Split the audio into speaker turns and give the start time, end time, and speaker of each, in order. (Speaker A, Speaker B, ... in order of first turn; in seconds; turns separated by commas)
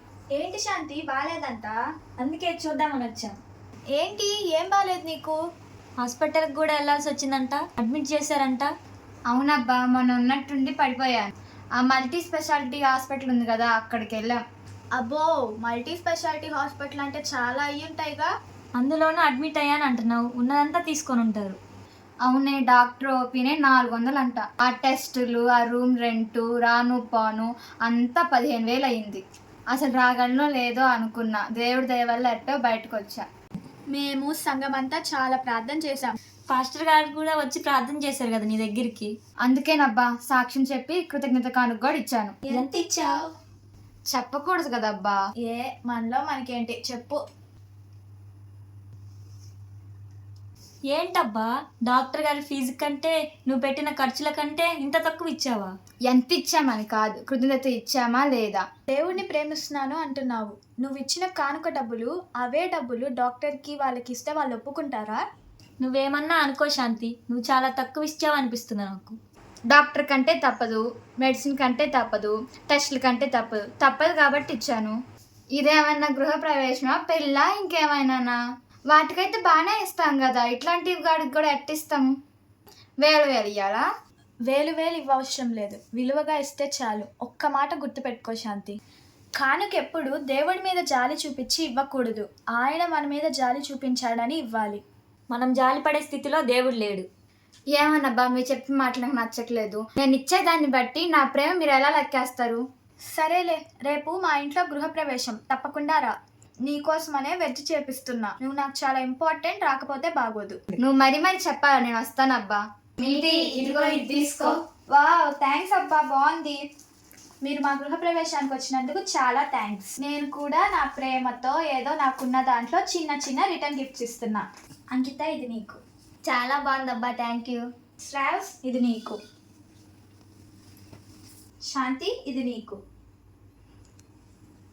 Speaker A: 0.3-1.7, Speaker B: 2.2-3.3, Speaker A: 4.0-5.4, Speaker B: 6.0-8.7, Speaker C: 9.3-14.4, Speaker A: 15.0-18.3, Speaker B: 18.8-21.6, Speaker C: 22.3-33.2, Speaker A: 33.9-36.1, Speaker B: 36.5-39.1, Speaker C: 39.5-42.4, Speaker B: 42.5-43.2, Speaker C: 44.1-45.2, Speaker A: 45.5-47.2, Speaker B: 50.9-55.7, Speaker C: 56.1-58.6, Speaker A: 59.0-65.2, Speaker B: 65.8-69.2, Speaker C: 69.7-75.0, Speaker C: 75.6-78.4, Speaker C: 78.9-82.1, Speaker C: 83.0-83.8, Speaker A: 84.5-88.8, Speaker A: 89.4-94.8, Speaker B: 95.3-97.0, Speaker C: 97.7-102.6, Speaker A: 103.2-106.1, Speaker A: 106.7-110.6, Speaker C: 110.8-116.6, Speaker B: 113.3-114.5, Speaker A: 117.5-124.4, Speaker A: 124.9-125.8, Speaker C: 126.3-127.6, Speaker A: 128.1-129.2, Speaker A: 131.7-132.8